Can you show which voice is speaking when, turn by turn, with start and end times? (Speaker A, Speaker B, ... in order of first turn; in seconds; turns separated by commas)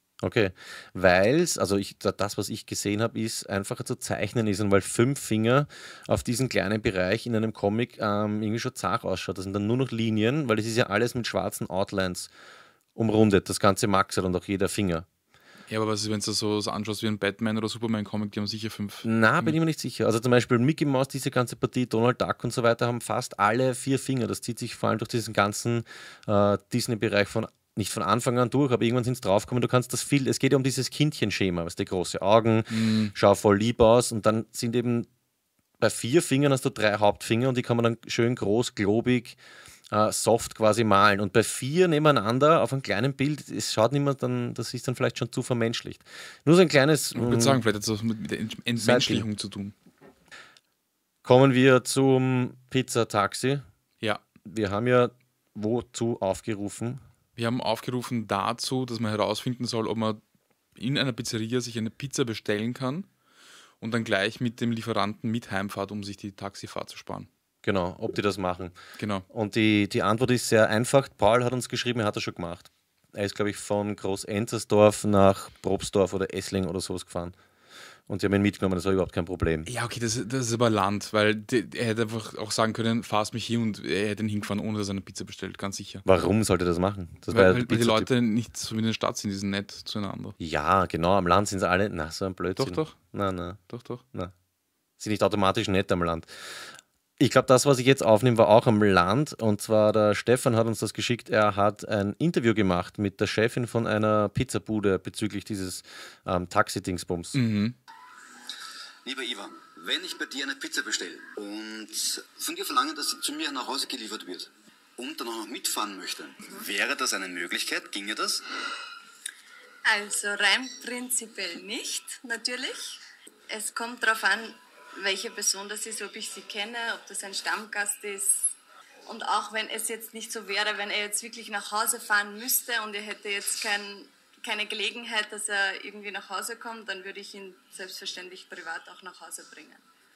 Speaker A: 0.2-12.3, Speaker A: 12.9-15.1, Speaker B: 15.7-19.6, Speaker A: 19.0-35.1, Speaker B: 32.7-33.1, Speaker A: 35.8-39.4, Speaker A: 39.9-47.6, Speaker B: 47.1-49.7, Speaker A: 48.8-49.3, Speaker A: 51.2-53.6, Speaker A: 54.4-57.0, Speaker B: 57.4-60.2, Speaker B: 60.8-63.1, Speaker B: 63.8-67.3, Speaker A: 67.6-68.8, Speaker B: 69.0-69.3, Speaker A: 69.3-77.4, Speaker A: 78.1-79.7, Speaker B: 79.7-86.0, Speaker A: 86.0-88.1, Speaker B: 87.3-90.3, Speaker A: 90.4-93.6, Speaker B: 92.6-93.0, Speaker B: 93.7-94.0, Speaker A: 95.0-107.4, Speaker B: 107.3-107.8, Speaker C: 109.0-118.4, Speaker D: 119.9-123.0, Speaker D: 123.5-128.5, Speaker D: 129.1-139.8